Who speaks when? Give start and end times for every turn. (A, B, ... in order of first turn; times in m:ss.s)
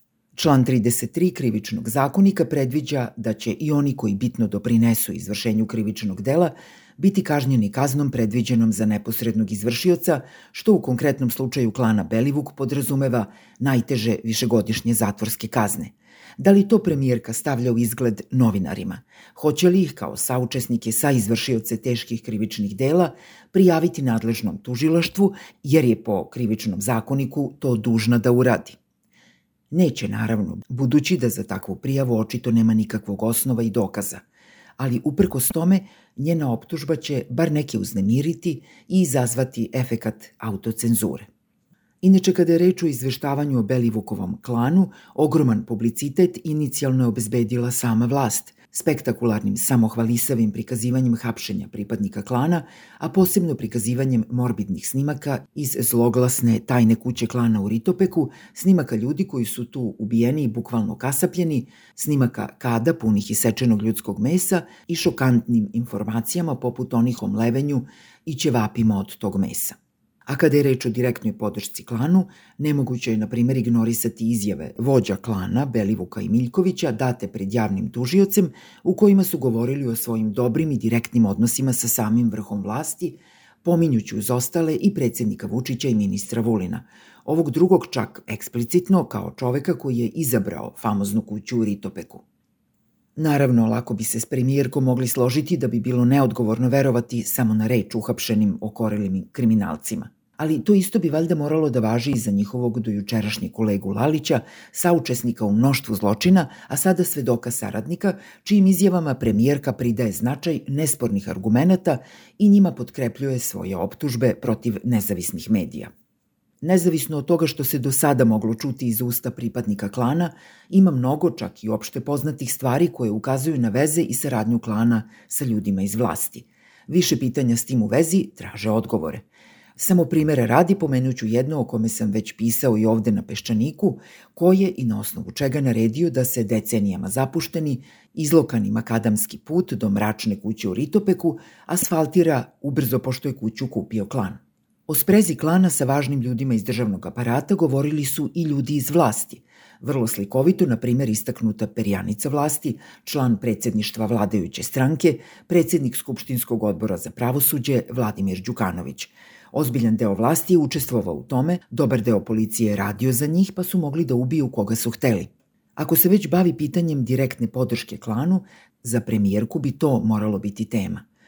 0:00.3-0:28.8 A
0:29.7-0:34.2 A
0:34.8-0:41.3 A
0:42.0-1:32.2 A
1:33.2-1:55.9 A
1:56.6-2:09.2 A
2:09.8-2:51.0 A